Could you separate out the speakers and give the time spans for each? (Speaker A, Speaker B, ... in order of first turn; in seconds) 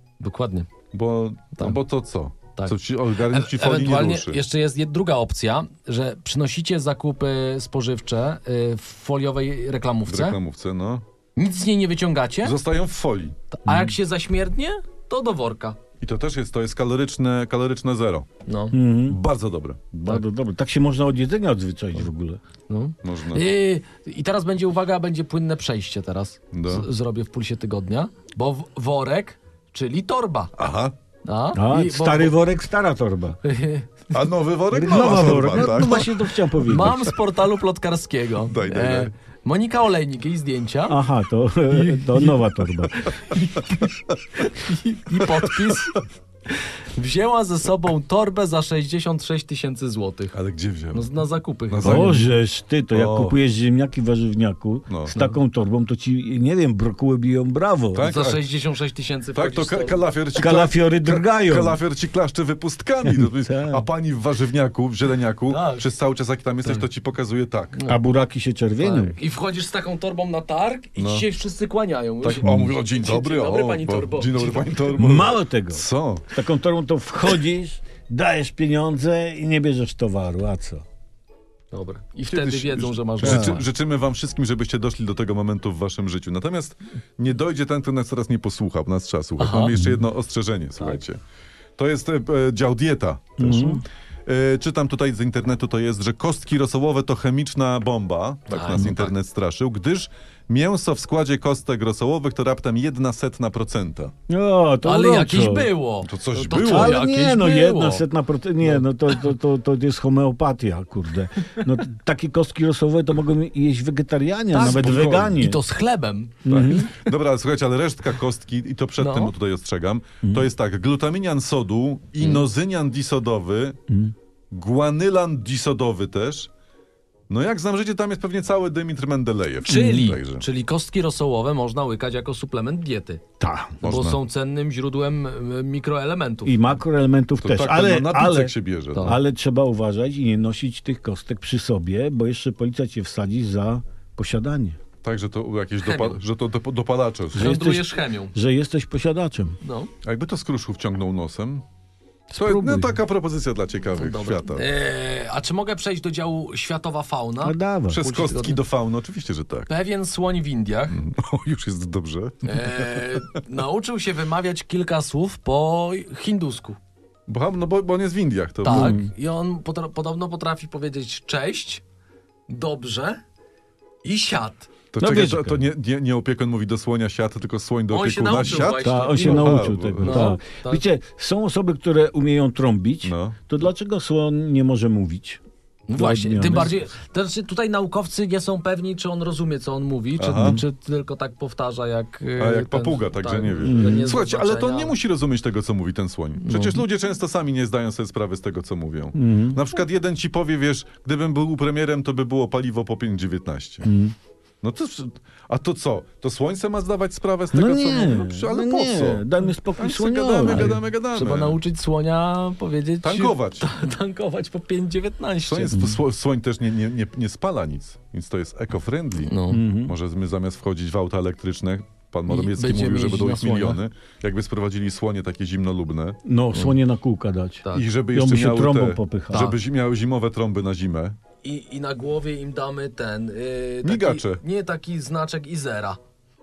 Speaker A: 0.2-0.7, 2.5-10.4, 11.3-12.5, 13.5-15.8, 18.4-18.8, 22.7-30.5, 31.2-32.4, 33.4-33.9, 35.4-36.0, 36.6-41.0, 41.7-50.3, 50.9-52.2, 58.0-60.0, 65.5-65.9, 68.8-74.8, 81.7-83.6, 89.4-89.7, 98.5-99.1, 104.8-108.0, 114.5-116.9, 119.0-119.3, 129.6-133.2, 133.8-136.7, 138.9-139.2, 145.8-146.2, 147.3-148.3, 149.6-149.9, 154.0-158.6, 159.7-161.0, 162.4-166.8, 168.6-171.8, 172.5-173.2, 174.0-174.7, 177.9-180.8, 185.9-194.9, 196.4-196.8, 210.5-215.9, 219.2-219.6, 222.3-223.8, 231.4-236.0
Speaker B: 0.9-4.4, 10.1-11.0, 12.4-13.4, 16.0-18.3, 19.1-19.8, 23.0-23.4, 26.5-26.9, 30.6-30.9, 34.1-36.1, 38.4-39.1, 50.3-51.1, 51.7-52.3, 52.9-53.4, 54.9-55.1, 57.9-58.4, 59.3-67.8, 71.0-71.2, 72.2-76.3, 82.3-91.2, 91.8-104.1, 106.0-107.0, 114.6-115.4, 116.5-123.8, 124.5-126.5, 127.3-130.4, 133.8-134.2, 137.4-139.2, 145.0-147.5, 150.0-151.6, 152.3-154.7, 157.9-159.7, 160.9-163.2, 167.3-169.0, 174.9-180.4, 183.0-183.4, 190.2-190.6, 192.4-203.9, 204.6-211.6, 213.0-213.7, 215.4-219.3, 219.8-226.2, 227.7-231.2, 233.8-234.4
Speaker C: 13.7-13.9, 18.7-19.2, 19.9-22.4, 31.5-33.4, 34.7-37.1, 40.9-43.0, 51.8-58.0, 60.3-61.8, 63.0-63.9, 67.9-69.2, 72.4-72.7, 75.0-80.8, 83.2-83.6, 89.7-90.0, 93.4-93.8, 104.3-105.7, 106.5-115.6, 116.4-116.9, 120.2-120.5, 123.9-124.1, 133.4-133.8, 136.4-144.8, 147.3-149.6, 152.3-153.0, 157.4-158.0, 168.7-169.1, 175.0-175.7, 178.7-185.4, 185.9-186.8, 190.3-190.6, 193.6-194.1, 199.1-199.6, 203.8-204.1, 207.5-210.8, 219.5-219.9, 226.2-229.5